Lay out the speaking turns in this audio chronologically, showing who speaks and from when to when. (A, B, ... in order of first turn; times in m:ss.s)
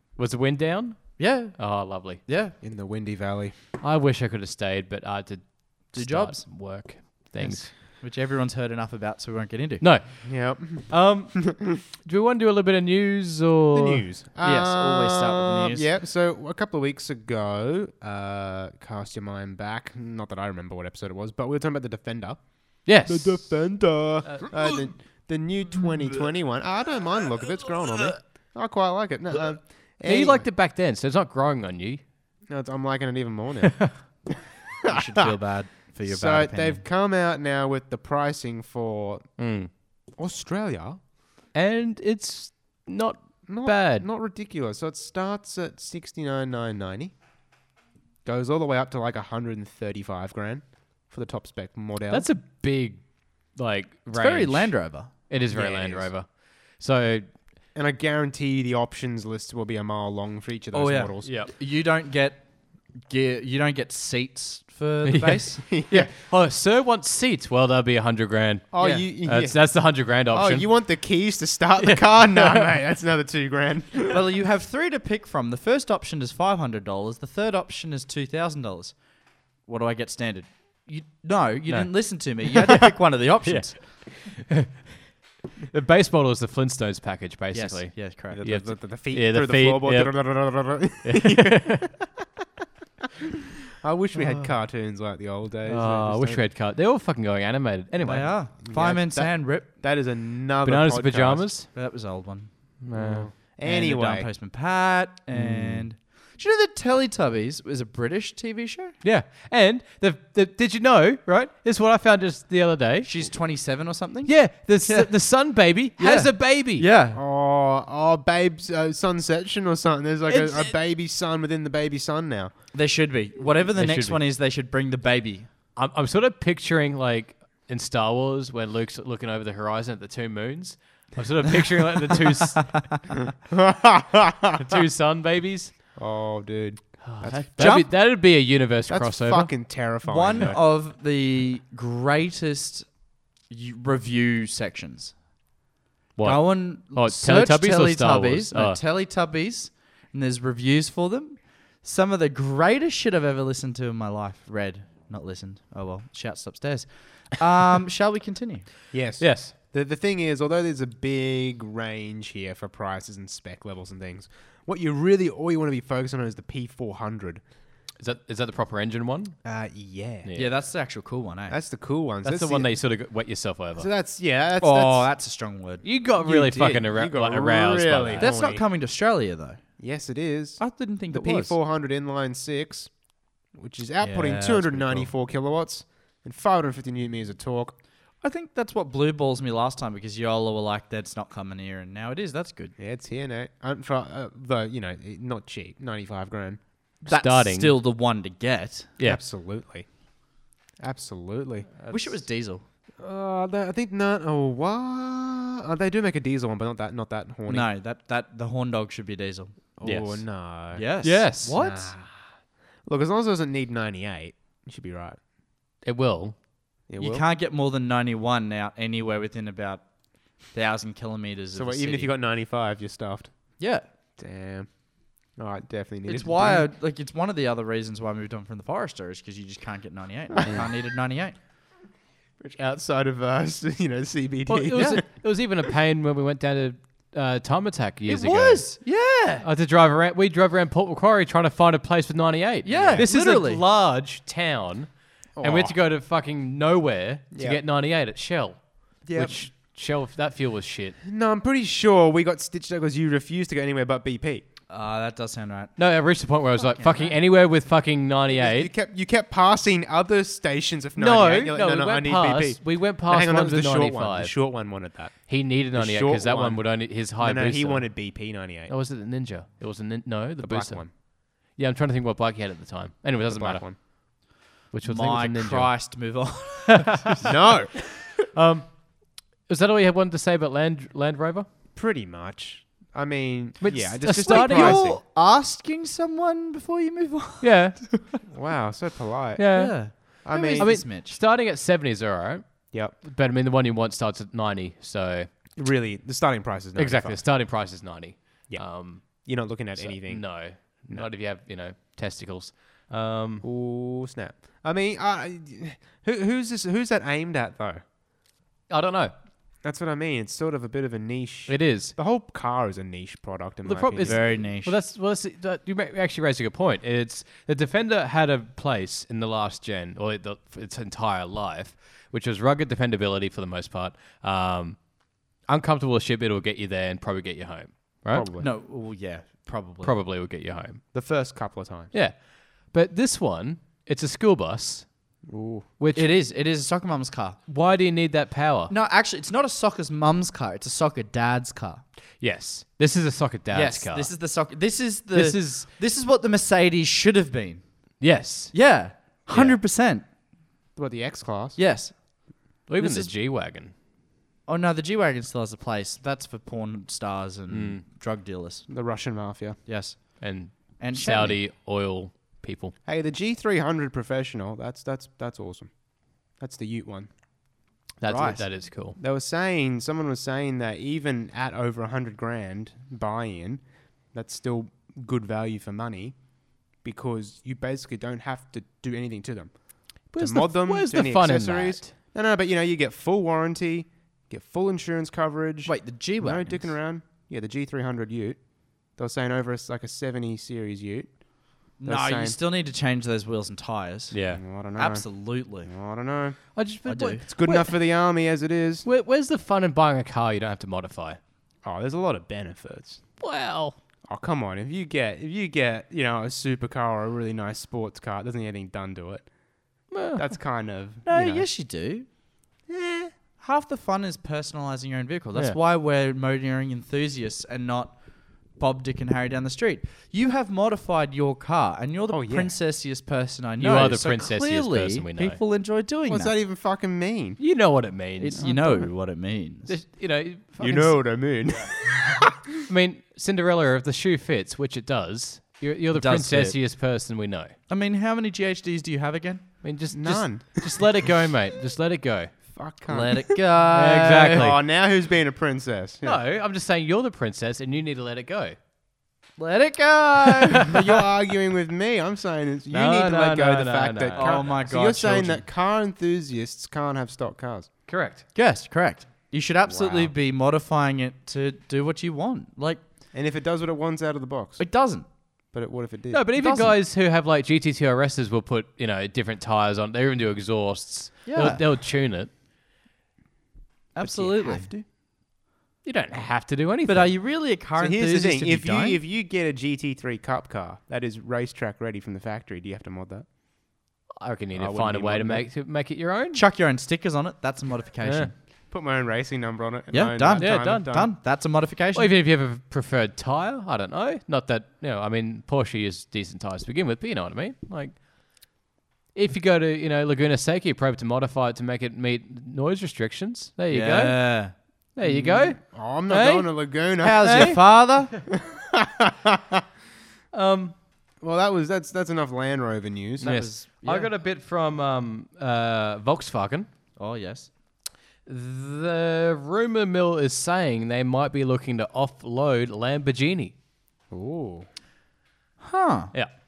0:00.2-0:02.2 A
0:01.2-0:02.5 B
0:02.6-0:03.5 C
0:03.8-0:07.7 A
0:05.9-0:06.5 B
0:07.4-0:07.7 C
0:07.7-0:09.8 B
0:09.8-0:14.0 A
0:10.2-0:11.2 C
0:13.7-0:30.5 C
0:14.4-0:15.9 B
0:22.8-0:24.5 A
0:30.0-0:32.0 A
0:32.5-0:34.1 C
0:34.8-0:35.2 C
0:34.9-0:36.8 B
0:36.0-0:39.3 C
0:39.4-0:39.7 A
0:40.1-0:41.0 C
0:41.5-0:44.1 A
0:43.5-0:47.1 C
0:48.2-0:52.3 C
0:52.1-0:57.3 A
0:54.1-0:55.1 B
0:55.5-0:56.1 C
0:57.7-1:01.3 C
1:00.7-1:05.7 B
1:01.2-1:01.5 A
1:05.0-1:10.7 A
1:05.7-1:06.1 C
1:08.7-1:14.2 C
1:11.8-1:12.7 A
1:14.1-1:23.8 B
1:21.7-1:22.1 A
1:23.4-1:25.1 A
1:25.7-1:31.9 A
1:27.5-1:28.4 B
1:28.3-1:32.0 C
1:33.8-1:36.4 C
1:34.1-1:34.5 B
1:35.6-1:38.4 A
1:37.9-1:39.7 B
1:38.6-1:41.5 C
1:40.6-1:41.7 A
1:41.7-1:42.5 B
1:42.8-1:43.3 A
1:42.9-1:44.3 C
1:43.6-1:48.9 B
1:45.3-1:45.9 A
1:49.0-1:53.2 A
1:53.0-1:55.2 B
1:54.2-1:56.8 A
1:56.0-1:57.2 B
1:57.1-2:02.5 C
2:02.7-2:05.5 B
2:03.8-2:04.2 A
2:05.8-2:13.0 A
2:13.5-2:14.8 C
2:14.6-2:15.7 A
2:15.9-2:17.3 C
2:17.0-2:19.5 A
2:17.2-2:17.9 B
2:18.9-2:20.6 C
2:20.0-2:25.2 B
2:26.2-2:28.8 A
2:26.2-2:38.7 B
2:38.9-2:47.4 C
2:39.2-2:39.5 A
2:48.0-2:49.3 A
2:49.4-2:50.3 C
2:50.2-2:50.5 A
2:50.4-2:51.6 B
2:51.5-2:52.7 C
2:52.2-2:53.9 A
2:53.7-2:55.1 C
2:54.6-2:56.8 B
2:55.8-2:58.3 A
2:56.2-2:58.6 C
2:58.2-2:59.6 B
2:59.8-3:02.9 C
3:00.6-3:01.6 B
3:03.5-3:07.8 C
3:04.0-3:05.1 B
3:08.2-3:12.7 B
3:12.8-3:16.6 C
3:17.0-3:18.9 B
3:17.1-3:17.8 A
3:19.0-3:20.0 C
3:20.8-3:21.8 C
3:21.9-3:22.6 B
3:23.0-3:27.7 C
3:27.5-3:29.5 B
3:29.8-3:30.8 C
3:29.8-3:30.3 A
3:30.7-3:31.5 B
3:31.0-3:31.9 A
3:31.4-3:32.3 C
3:32.8-3:35.2 C
3:35.8-3:36.3 A
3:36.9-3:37.2 C
3:37.0-3:42.1 B
3:41.5-3:43.6 C
3:43.6-3:43.8 B
3:44.2-3:46.6 C
3:46.1-3:51.4 B
3:52.4-3:55.0 C
3:54.5-3:58.6 A
3:58.0-3:59.4 B
3:59.4-4:11.0 A
4:02.6-4:03.6 B
4:02.7-4:03.1 C
4:05.4-4:05.8 C
4:07.3-4:07.6 C
4:09.0-4:09.4 C
4:11.0-4:14.4 C
4:14.7-4:15.8 B
4:15.8-4:18.7 A
4:16.6-4:17.2 B
4:18.3-4:28.7 C
4:21.0-4:24.5 A
4:25.3-4:34.1 A
4:30.4-4:30.9 C
4:33.3-4:33.8 C
4:34.7-4:35.9 A
4:34.8-4:37.1 B
4:36.8-4:37.2 A
4:37.2-4:37.7 C
4:38.3-4:41.4 A
4:41.8-4:45.0 C
4:43.6-4:44.9 A
4:44.2-4:47.8 B
4:47.4-4:48.0 A
4:48.2-4:49.4 C
4:49.4-4:52.4 A
4:49.5-4:51.2 B
4:50.0-4:50.8 C
4:52.9-4:55.3 A
4:55.6-4:57.2 C
4:56.7-4:59.2 A
4:58.5-5:01.0 C
4:59.8-5:03.4 A
5:03.4-5:07.8 C
5:08.7-5:09.1 A
5:09.6-5:14.2 C
5:11.5-5:11.9 A
5:13.6-5:24.8 A
5:14.0-5:14.8 B
5:25.4-5:28.3 A
5:28.1-5:28.5 C
5:28.4-5:29.9 B
5:29.8-5:30.8 A
5:30.9-5:31.9 C
5:31.9-5:34.9 A
5:35.3-5:35.7 C
5:35.8-5:36.1 A
5:35.9-5:37.4 B
5:37.5-5:38.7 A
5:38.7-5:41.8 B
5:42.2-5:44.1 A
5:43.5-5:47.6 B
5:45.1-5:45.7 A
5:48.0-5:48.5 A
5:48.5-5:50.0 B
5:50.8-5:51.6 C
5:51.6-5:52.2 B
5:52.7-5:53.7 A
5:52.8-5:53.1 B
5:54.5-5:58.7 B
5:57.5-5:57.8 A
5:58.7-5:59.6 C
5:59.6-6:01.4 B
6:00.2-6:02.7 A
6:02.8-6:05.7 C
6:06.3-6:07.1 C
6:08.0-6:09.0 A
6:08.0-6:08.4 B
6:09.0-6:16.2 C
6:16.7-6:32.4 C
6:20.1-6:21.9 A
6:25.6-6:26.7 B
6:31.8-6:34.2 B
6:34.1-6:34.4 A
6:34.3-6:36.4 C
6:34.7-6:35.7 B
6:36.5-6:37.7 A
6:36.8-6:37.2 B
6:37.3-6:38.8 C
6:38.8-6:41.2 A
6:41.6-6:43.0 C
6:43.2-6:43.8 A
6:44.1-6:49.3 C
6:49.9-6:50.3 A
6:50.1-6:51.5 C
6:51.0-6:52.1 B
6:52.7-6:53.1 C
6:53.4-7:06.3 B
7:02.1-7:02.5 C
7:03.6-7:05.4 A
7:06.1-7:07.4 C
7:07.4-7:08.9 A
7:08.2-7:09.7 B
7:09.6-7:11.1 A
7:10.6-7:12.4 C
7:12.6-7:17.5 A
7:15.9-7:16.6 B
7:17.7-7:19.4 B
7:19.6-7:22.3 A
7:19.9-7:20.6 C
7:22.5-7:23.4 C
7:22.9-7:24.4 B
7:23.7-7:24.6 A
7:24.4-7:26.2 C
7:26.0-7:28.6 A
7:29.4-7:30.7 B
7:30.6-7:37.7 C
7:32.7-7:34.5 A
7:34.1-7:35.4 B
7:37.9-7:38.2 A
7:38.3-7:42.8 B
7:39.7-7:40.1 C
7:43.1-7:44.6 C
7:44.6-7:45.0 B
7:45.5-7:46.2 C
7:46.1-7:52.3 A
7:46.4-7:46.7 B
7:51.2-7:51.6 B
7:53.9-7:54.7 B
7:54.0-7:54.8 C
7:55.8-7:57.1 A
7:56.8-7:59.0 B
7:57.8-8:03.3 C
8:04.2-8:06.4 A
8:04.5-8:05.4 C
8:06.3-8:08.3 B
8:08.0-8:08.3 A
8:08.7-8:11.1 C
8:09.9-8:12.1 B
8:10.4-8:11.0 A
8:11.9-8:18.0 A
8:19.1-8:24.4 A
8:23.7-8:24.5 B
8:24.9-8:26.7 A
8:25.0-8:27.5 C
8:27.0-8:28.1 B
8:27.2-8:27.6 A
8:28.3-8:29.6 C
8:30.3-8:30.7 A
8:31.2-8:33.4 C
8:33.2-8:36.7 A
8:33.2-8:34.1 B
8:37.0-8:37.5 B
8:38.2-8:43.5 A
8:44.1-8:44.7 C
8:45.6-8:46.1 B